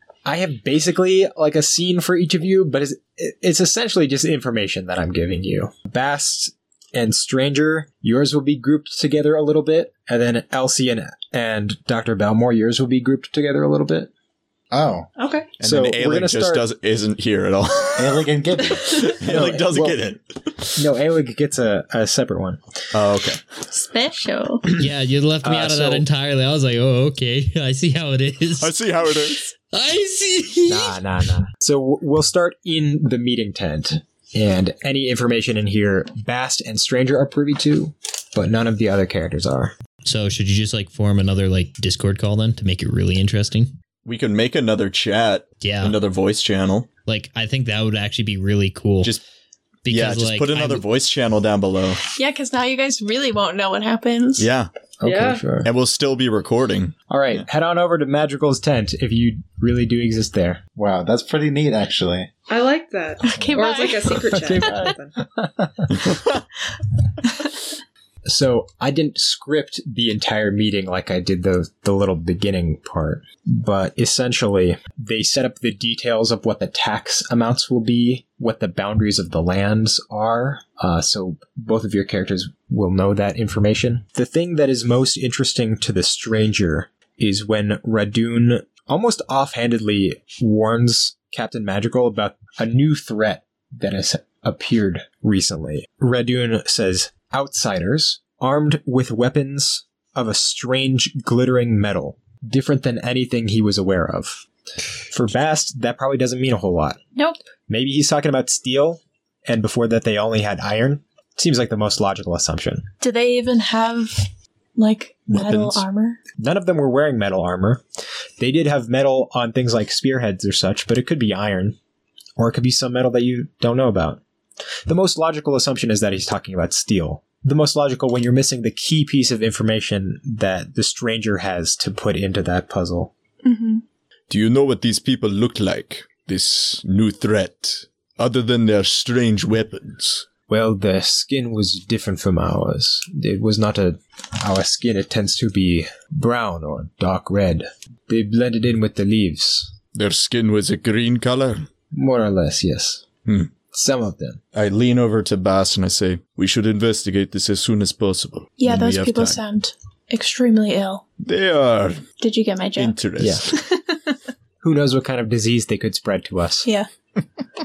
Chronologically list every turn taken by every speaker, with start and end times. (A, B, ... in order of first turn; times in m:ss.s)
0:00.2-0:14.1 A
0:14.7-0:15.1 B
0:15.2-0:15.5 C
0:15.6-0:20.8 D
0:15.6-0:16.7 A
0:18.0-0:19.2 B
0:19.2-0:20.0 A
0:20.8-0:22.6 A
0:22.9-0:23.4 D
0:23.7-0:24.6 E
0:24.7-0:28.7 F
0:25.4-0:26.1 A
0:28.6-0:29.5 D
0:29.2-0:31.0 F
0:30.7-0:39.8 A
0:40.0-0:43.7 F
0:44.0-0:46.9 D
0:45.6-0:46.0 F
0:47.1-0:49.2 F
0:49.8-0:50.8 F
0:49.9-0:52.0 D
0:52.2-0:54.5 E
0:54.4-0:54.7 D
0:55.0-0:55.7 A
0:55.0-0:55.4 C
0:55.6-0:57.4 D
0:57.1-1:00.6 A
1:00.8-1:02.3 B
1:02.5-1:05.2 C
1:03.2-1:04.4 E
1:04.3-1:06.0 A
1:05.9-1:06.4 D
1:08.2-1:44.4 A
1:45.1-1:47.0 A
1:47.2-1:47.4 E
1:47.7-1:52.9 A
1:53.0-1:56.2 E
1:55.3-1:55.8 D
1:56.4-1:57.8 A
1:58.4-2:01.8 A
2:02.4-2:04.2 A
2:04.9-2:13.1 A
2:13.4-2:13.8 E
2:14.3-2:20.3 D
2:20.5-2:29.7 A
2:29.9-2:31.7 D
2:31.9-2:33.0 A
2:33.3-2:33.5 D
2:33.7-2:34.4 A
2:34.5-2:39.4 D
2:38.6-2:41.0 E
2:41.2-2:42.1 D
2:42.2-2:44.0 E
2:42.8-2:43.4 D
2:43.2-2:43.5 A
2:44.6-2:46.7 A